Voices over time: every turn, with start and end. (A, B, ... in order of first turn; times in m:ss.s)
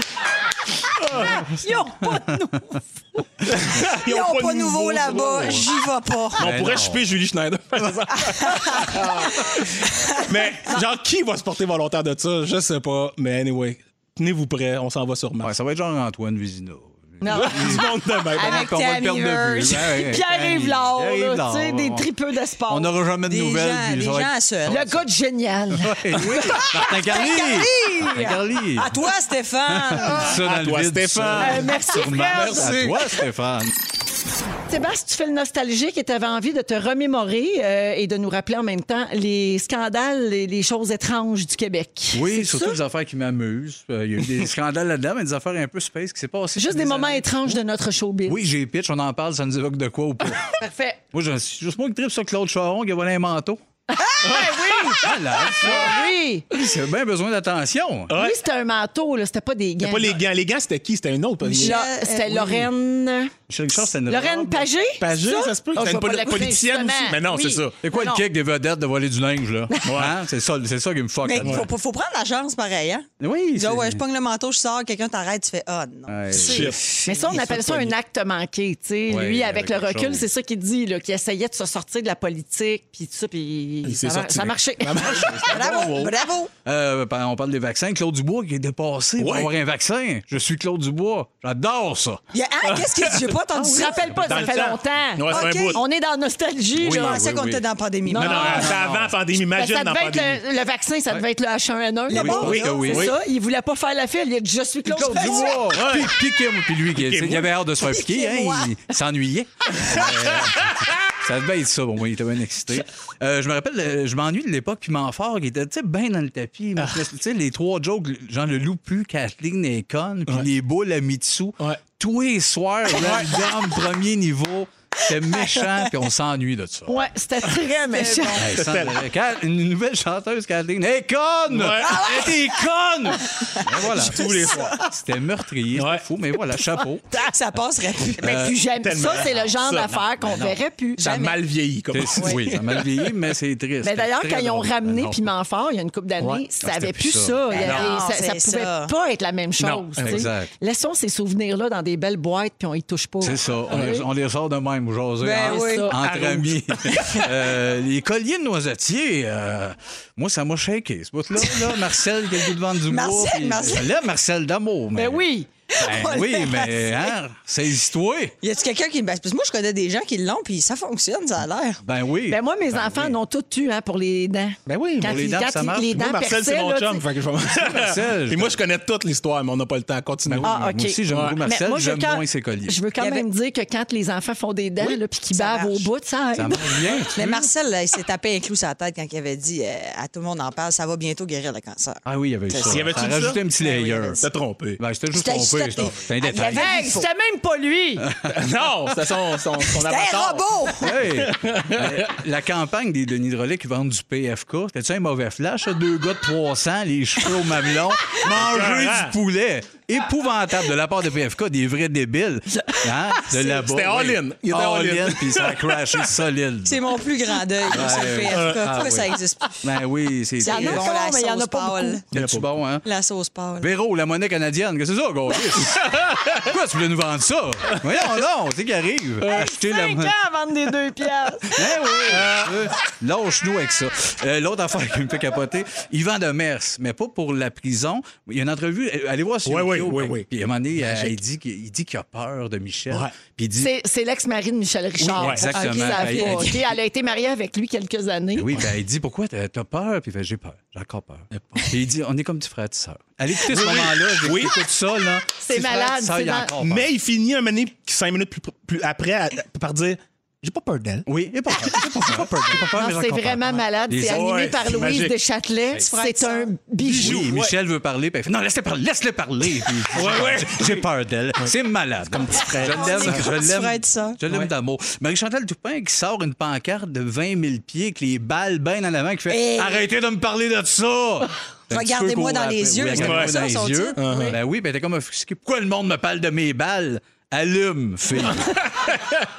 0:01.2-0:03.2 A
0:03.5-0:05.6 B
0:04.0-0:06.4 C
0:06.4-0:07.1 D
0:06.4-0:15.5 B
0:08.4-0:09.0 C
0:15.4-0:22.1 D
0:17.2-0:17.9 A
0:17.3-0:18.7 B
0:18.3-0:20.0 C
0:20.0-0:22.9 A
0:22.7-0:25.0 D
0:23.3-0:24.8 C
0:24.7-0:26.6 A
0:25.8-0:29.0 D
0:26.9-0:30.2 C
0:29.9-0:33.7 D
0:30.1-0:31.8 B
0:31.4-0:32.7 A
0:32.3-0:33.2 B
0:34.7-0:42.8 A
0:42.1-0:47.6 D
0:46.6-0:48.4 A
0:48.3-0:50.6 D
0:50.5-0:51.0 A
0:51.1-0:53.6 D
0:53.9-0:56.4 A
0:54.2-0:54.5 B
0:55.0-0:58.1 D
0:58.1-0:58.4 B
0:58.2-1:00.2 A
0:59.8-1:01.8 B
1:01.6-1:02.6 C
1:01.6-1:07.2 A
1:03.5-1:04.7 D
1:05.0-1:07.8 B
1:07.3-1:07.6 C
1:07.8-1:11.7 D
1:07.9-1:08.2 A
1:09.8-1:10.2 B
1:11.2-1:17.0 C
1:11.4-1:11.7 B
1:13.2-1:14.0 D
1:16.1-1:16.7 D
1:16.3-1:17.9 B
1:17.0-1:25.4 A
1:19.1-1:20.2 D
1:23.8-1:25.8 B
1:25.0-1:32.2 D
1:25.5-1:26.5 C
1:29.2-1:29.5 B
1:32.3-1:34.0 C
1:33.5-1:37.2 A
1:34.1-1:35.8 B
1:35.3-1:35.8 C
1:36.7-1:37.6 D
1:36.9-1:38.7 C
1:38.1-1:38.7 A
1:38.2-1:40.4 B
1:38.2-1:39.1 D
1:39.4-1:45.6 A
1:42.1-1:43.0 C
1:42.1-1:43.1 D
1:42.4-1:43.1 B
1:44.9-2:07.0 D
1:45.2-1:45.6 C
1:45.7-1:46.2 B
1:46.9-1:47.5 B
1:47.9-1:48.7 C
1:49.8-1:50.5 B
2:06.9-2:08.4 A
2:08.0-2:08.3 C
2:08.4-2:17.0 D
2:08.4-2:09.0 B
2:11.5-2:12.2 B
2:12.1-2:12.4 C
2:13.3-2:13.6 C
2:13.9-2:14.8 B
2:15.7-2:16.0 B
2:17.3-2:18.3 C
2:18.2-2:18.6 D
2:18.2-2:21.1 A
2:18.8-2:19.9 B
2:20.0-2:20.6 D
2:21.0-2:21.4 C
2:21.0-2:23.0 B
2:21.9-2:25.3 D
2:23.8-2:34.0 A
2:26.2-2:27.9 D
2:27.5-2:28.9 C
2:29.6-2:30.3 B
2:30.0-2:30.5 D
2:33.2-2:48.3 D
2:35.2-2:35.9 C
2:35.2-2:36.0 A
2:36.0-2:36.9 B
2:42.9-2:43.9 C
2:44.9-2:45.5 A
2:45.7-2:47.1 C
2:48.4-2:51.8 C
2:51.8-2:53.2 D
2:52.3-2:57.0 A
2:54.6-2:55.4 B
2:55.0-2:55.9 D
2:55.9-3:00.5 B
2:57.7-2:58.6 D
3:00.2-3:02.8 D
3:00.4-3:06.8 A
3:01.1-3:01.4 B
3:03.0-3:03.2 C
3:05.3-3:05.9 C
3:06.4-3:07.5 D
3:07.2-3:14.2 C
3:12.0-3:14.2 D
3:12.6-3:13.4 B
3:14.2-3:14.8 B
3:14.8-3:16.8 D
3:15.1-3:17.1 C
3:16.6-3:18.1 A
3:18.1-3:18.4 D
3:18.3-3:22.1 B
3:19.7-3:20.9 C
3:20.8-3:36.9 D
3:28.3-3:29.1 B
3:33.4-3:36.0 B
3:36.6-3:39.6 C
3:37.7-3:40.8 D
3:38.3-3:38.6 B
3:40.4-3:42.0 C
3:40.4-3:42.0 A
3:42.1-3:42.8 D
3:42.1-3:42.5 B
3:42.8-3:43.7 C
3:43.6-3:50.1 D
3:45.9-3:46.3 B
3:49.2-3:51.6 A
3:51.5-4:03.7 D
3:52.1-3:52.7 B
3:59.4-4:00.2 B
4:00.8-4:01.2 B
4:03.6-4:08.6 A
4:05.0-4:06.6 D
4:05.2-4:05.4 B
4:05.5-4:06.6 C
4:08.4-4:16.9 D
4:11.3-4:11.8 B
4:13.5-4:14.7 B
4:15.4-4:16.5 A
4:16.6-4:21.0 B
4:21.1-4:24.5 D
4:21.6-4:22.7 B
4:22.7-4:27.2 A
4:24.1-4:25.1 B
4:25.8-4:26.5 C
4:26.8-4:48.7 D
4:27.0-4:27.5 B
4:29.9-4:30.8 B
4:32.1-4:33.3 B
4:32.7-4:34.2 C
4:39.3-4:39.9 C
4:41.7-4:44.2 C
4:42.9-4:43.4 B
4:44.0-4:44.4 B